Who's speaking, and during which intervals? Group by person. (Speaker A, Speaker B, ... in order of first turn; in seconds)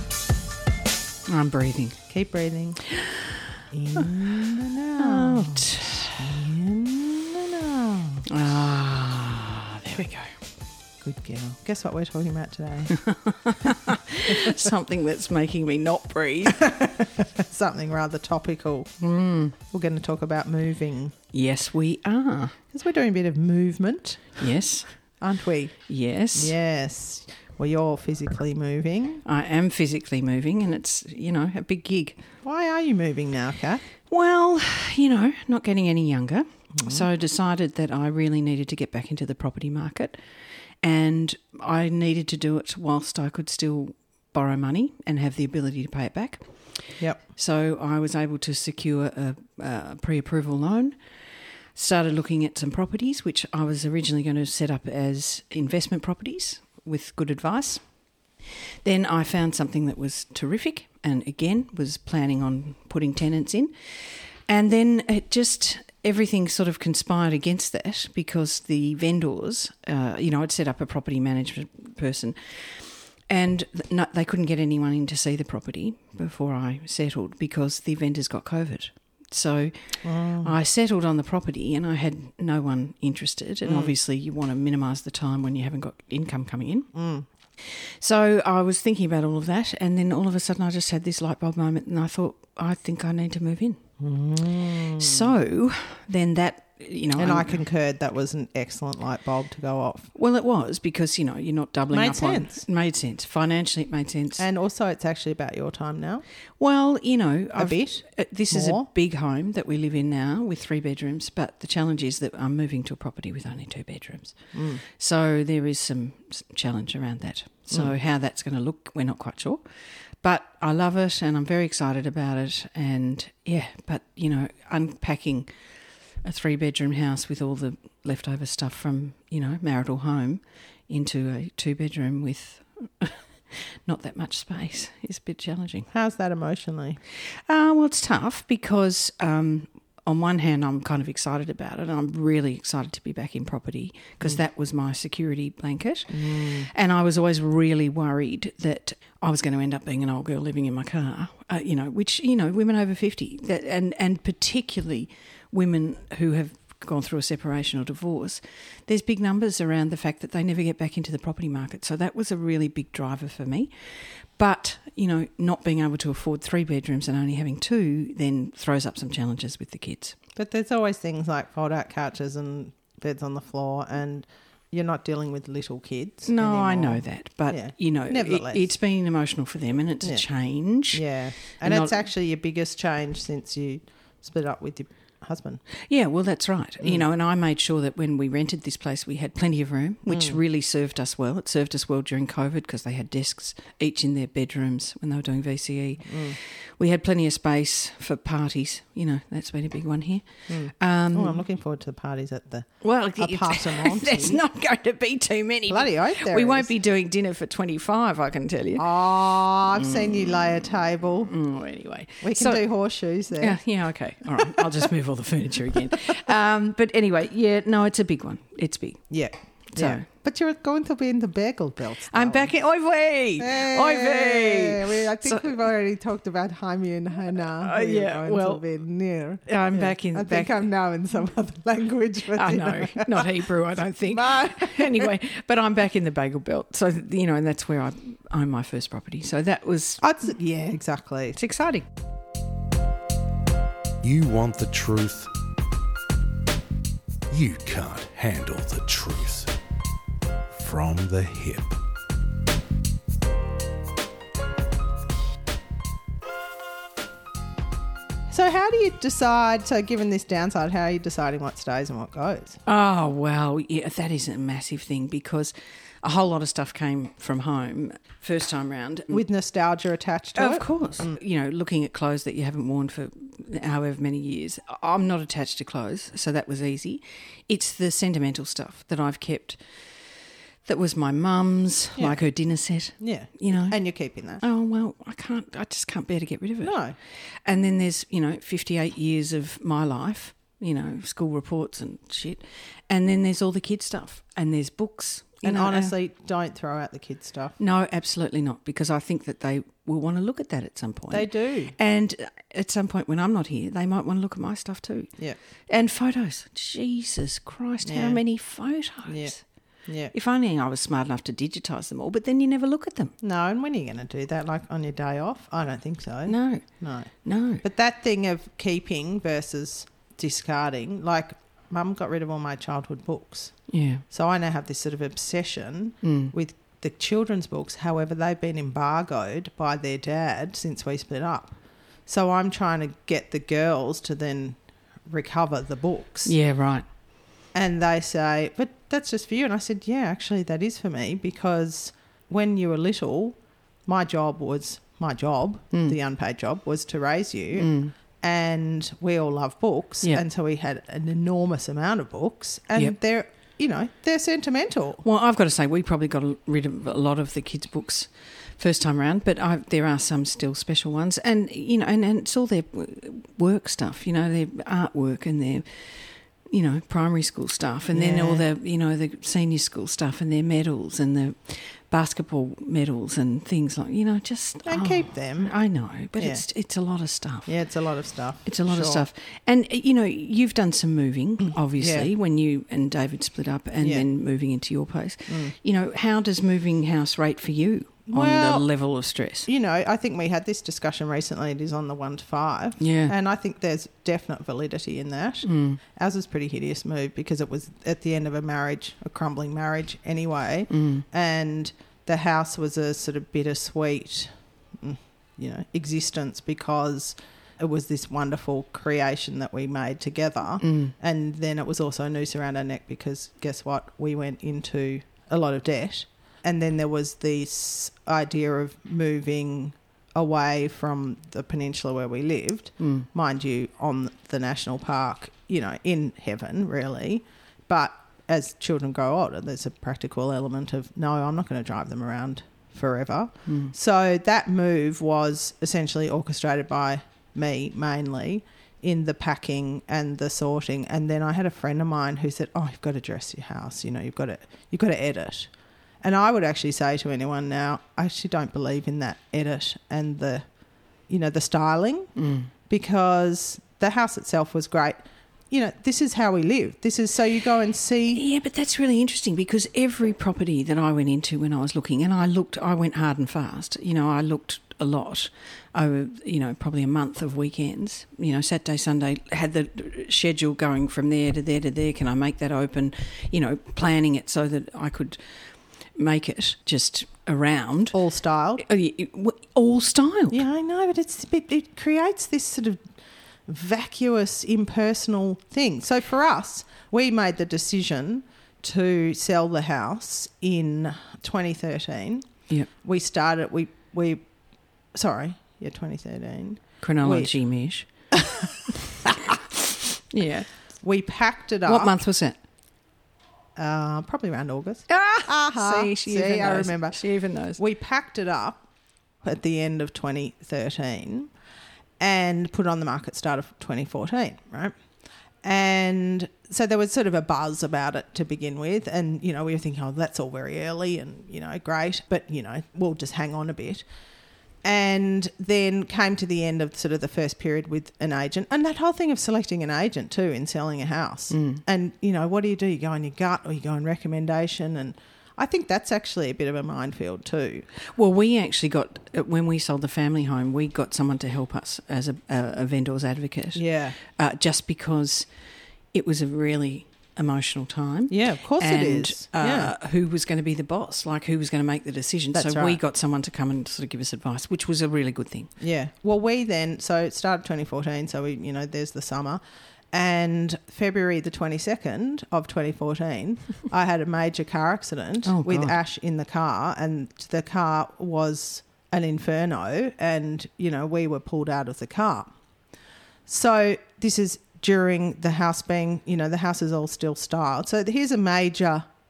Speaker A: 1.3-2.0, 2.9-3.4, 5.0-6.2, 8.3-10.3, 12.9-16.8, 19.0-19.6, 21.3-22.6, 24.4-24.9, 25.9-26.6, 29.2-32.2, 34.1-40.2, 40.8-51.0, 51.8-57.8, 58.8-86.9, 87.7-93.8, 95.0-97.6, 100.2-104.4, 106.6-119.6, 120.2-125.5, 126.2-135.9, 137.5-163.7, 164.4-170.2, 176.3-181.1, 181.6-182.0, 185.8-201.4, 202.8-208.9, 209.8-210.3, 211.2-212.6, 213.4-219.0, 219.7-220.1, 222.1-225.5, 227.6-228.6, 229.5-230.6, 232.3-240.0, 241.3-241.9, 262.7-269.2, 270.4-279.6, 280.6-283.8, 284.4-286.8, 287.4-295.9, 297.6-305.1, 305.7-309.4, 310.1-313.1, 316.3-316.6, 317.2-317.6, 323.7-324.0, 326.0-326.3, 336.2-336.9, 347.6-347.9, 355.0-377.5, 378.4-389.5, 392.8-393.1, 395.4-395.8, 400.7-401.1, 410.6-410.9, 422.8-423.1, 433.5-433.7, 452.2-452.5, 458.1-475.2, 475.9-478.0, 478.6-480.4, 496.8-497.9, 500.1-500.5, 501.7-502.4, 504.9-507.6, 531.3-531.6, 537.9-545.3, 545.9-555.5, 565.2-565.8
Speaker B: 2.1-2.8, 3.7-8.2, 11.0-12.9, 14.3-14.6, 16.6-18.9, 19.7-21.2, 22.7-24.4, 25.2-25.8, 26.3-29.2, 32.4-33.8, 36.8-37.0, 80.0-80.5, 83.7-83.9, 86.9-87.3, 94.0-95.3, 97.2-100.1, 101.9-102.6, 104.4-106.2, 107.6-108.9, 114.5-114.8, 135.9-137.0, 146.1-146.7, 170.4-178.7, 180.9-185.6, 190.1-190.4, 196.1-196.4, 200.5-204.4, 205.7-206.7, 208.8-211.3, 212.2-213.6, 214.3-214.9, 219.1-222.5, 223.4-233.4, 234.1-235.1, 240.0-241.4, 258.3-262.6, 269.1-271.2, 282.0-282.2, 283.0-284.4, 286.6-287.0, 295.4-297.6, 301.1-301.8, 307.9-308.2, 309.1-309.4, 309.9-310.1, 313.2-317.1, 317.6-336.4, 337.5-355.0, 367.9-368.5, 374.7-375.5, 376.2-376.4, 377.5-379.1, 381.8-382.1, 383.8-384.1, 385.3-385.5, 388.1-388.7, 389.5-445.5, 446.0-450.4, 451.1-452.1, 452.7-455.0, 455.5-458.2, 477.9-478.6, 480.3-482.9, 483.5-492.3, 492.8-494.2, 494.9-497.3, 498.1-498.5, 500.8-501.9, 503.6-507.0, 507.6-508.6, 509.2-511.3, 512.0-514.7, 515.4-523.9, 524.6-537.7, 543.5-544.0, 548.1-549.7, 552.3-552.8, 555.6-572.3, 573.3-578.9
Speaker C: 244.0-245.3, 247.3-249.5, 250.5-251.8